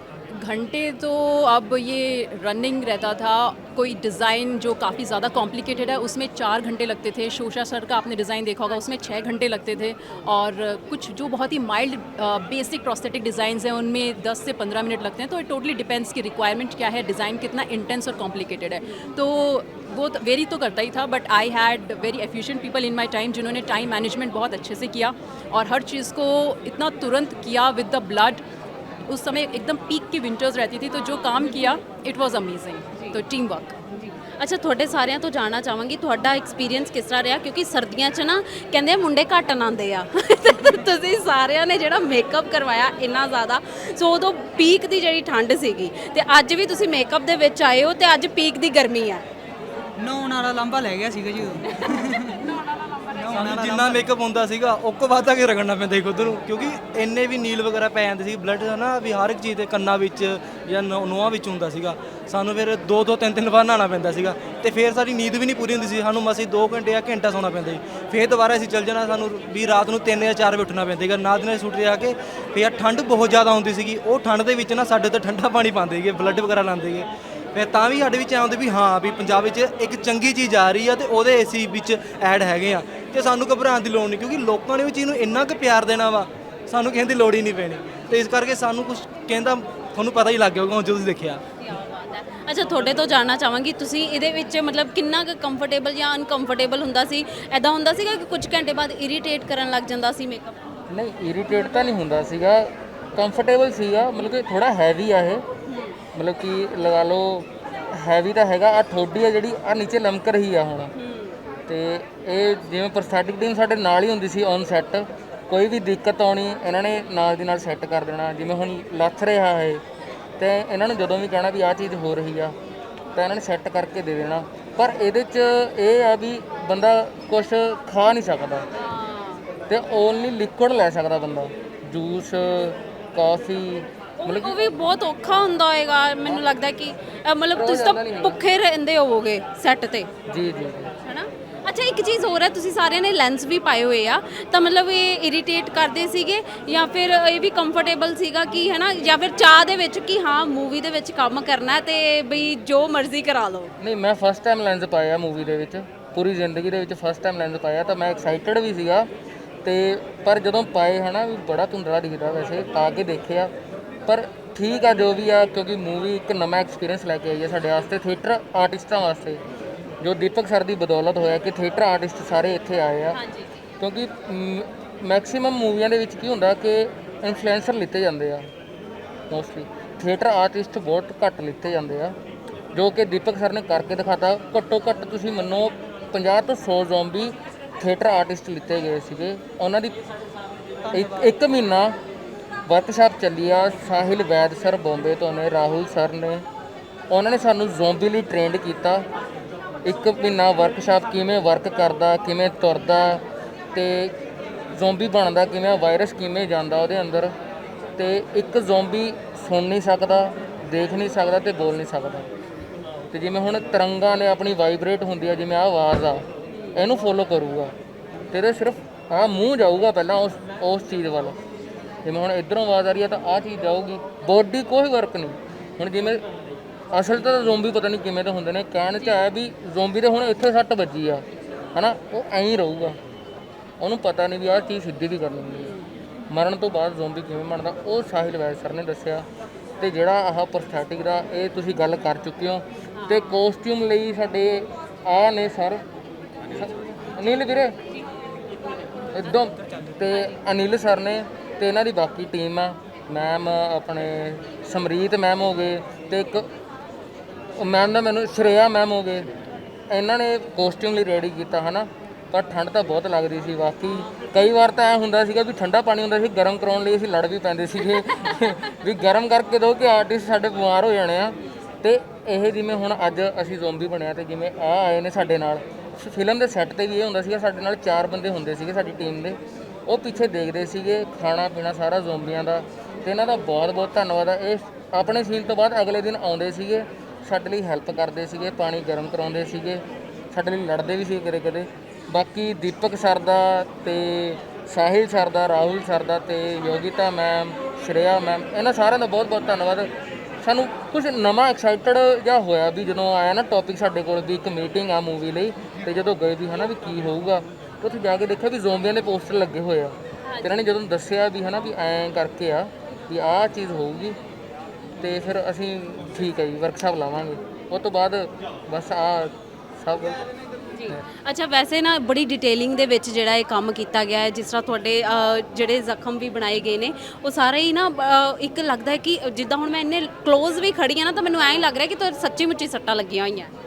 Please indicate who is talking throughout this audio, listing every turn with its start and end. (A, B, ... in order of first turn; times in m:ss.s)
0:00.3-0:28.4 A
0:29.1-0:33.8 A
0:33.9-0:49.2 B
0:50.0-0:52.5 C
0:53.1-0:54.1 C
0:53.3-1:31.4 D
1:31.6-1:40.6 B
1:40.9-1:45.4 E
1:45.7-1:46.0 B
1:46.2-1:50.9 E
1:51.0-1:51.4 B
1:51.7-1:59.8 E
2:00.4-2:02.6 E
2:03.2-2:08.7 E
2:08.8-2:09.4 B
2:09.7-2:14.6 E
2:14.2-2:20.1 B
2:17.6-2:18.4 E
2:20.3-2:20.9 E
2:21.0-2:33.7 B
2:33.8-2:39.1 E
2:39.6-2:43.5 E
2:44.1-2:49.4 E
2:50.0-2:53.2 E
2:53.2-2:53.4 B
2:53.8-2:58.5 E
2:59.3-3:02.2 E
3:02.7-3:10.0 E
3:10.8-3:11.3 C
3:10.9-3:12.0 E
3:12.7-3:16.5 E
3:17.1-3:19.1 E
3:19.8-3:23.2 E
3:23.7-3:24.2 E
3:24.7-3:27.3 E
3:28.0-3:32.3 E
3:33.1-3:37.7 E
3:38.3-3:41.4 E
3:42.0-3:46.2 E
3:46.9-3:53.0 E
3:53.8-3:55.7 E
3:55.6-3:55.9 B
3:56.3-3:59.3 E
3:59.8-4:05.8 E
4:03.0-4:03.4 B
4:06.5-4:07.8 E
4:09.1-4:16.5 E
4:17.6-4:19.3 E
4:19.9-5:14.2 E
5:10.3-5:10.6 B
5:15.0-5:20.2 E
5:20.7-5:33.5 B